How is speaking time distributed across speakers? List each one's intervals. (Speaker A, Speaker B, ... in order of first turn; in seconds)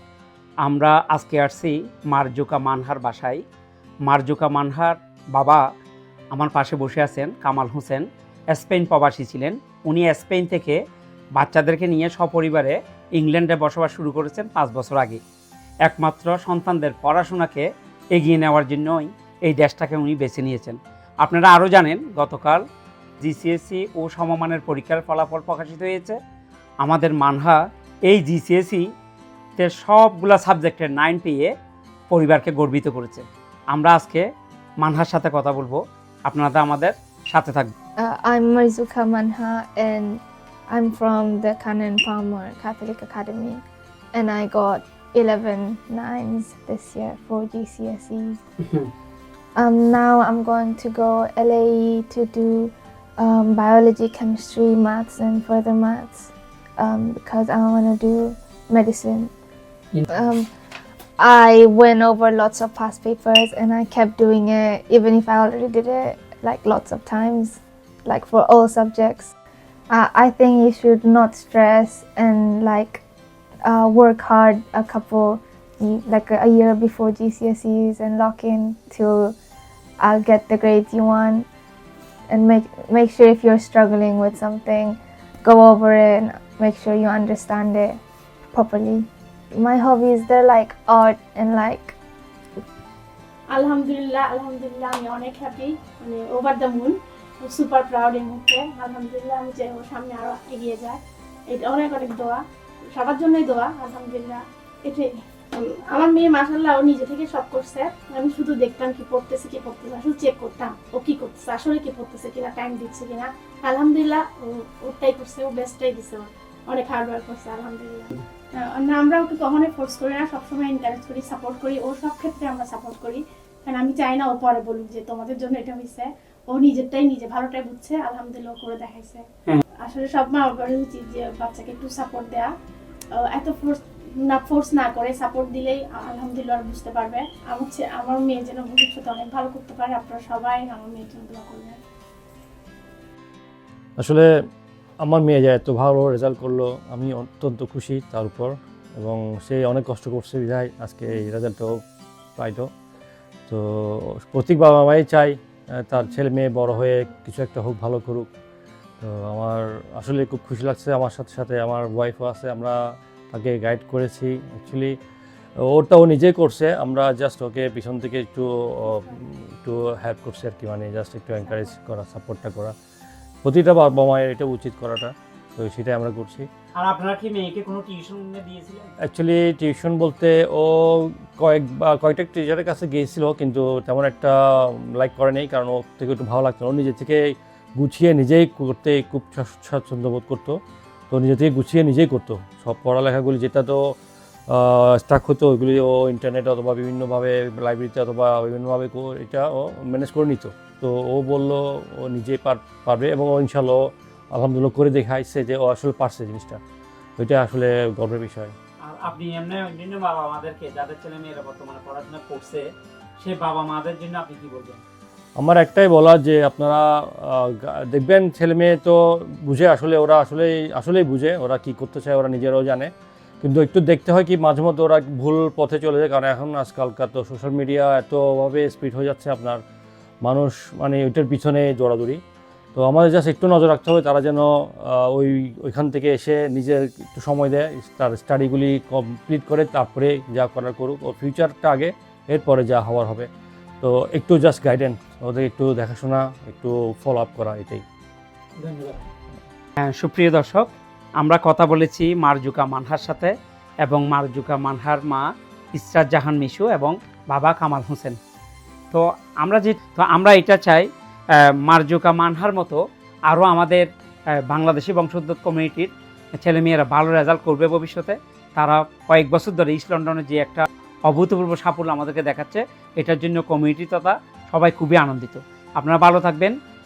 Speaker A: 0.6-3.4, 4.0-5.6, 6.3-10.8, 11.3-15.2, 15.8-22.6, 23.2-26.2, 26.8-28.8, 29.6-31.5, 32.1-34.2, 34.8-37.7, 59.9-60.2, 176.7-178.9, 208.8-212.7, 213.2-214.8, 248.6-249.0, 249.8-253.3, 253.8-258.2, 258.9-263.9, 264.5-276.6
Speaker B: 38.0-43.6, 44.1-48.4, 49.5-59.3, 60.1-60.5, 61.2-69.3, 69.9-73.0, 73.6-79.3, 80.0-81.5, 82.3-88.0, 88.5-92.0
Speaker C: 93.5-102.4, 102.9-129.2, 129.8-132.5, 133.1-141.8, 168.9-169.2, 171.4-171.7
Speaker D: 144.0-144.2, 145.0-151.8, 152.4-152.7, 153.5-158.3, 159.0-162.8, 163.3-164.9, 165.6-172.7, 173.4-176.5, 179.1-190.6, 191.1-193.8, 194.5-203.8, 204.3-206.6, 207.2-208.5, 215.4-222.9, 223.4-229.6, 230.2-232.2, 232.8-243.3, 243.8-247.8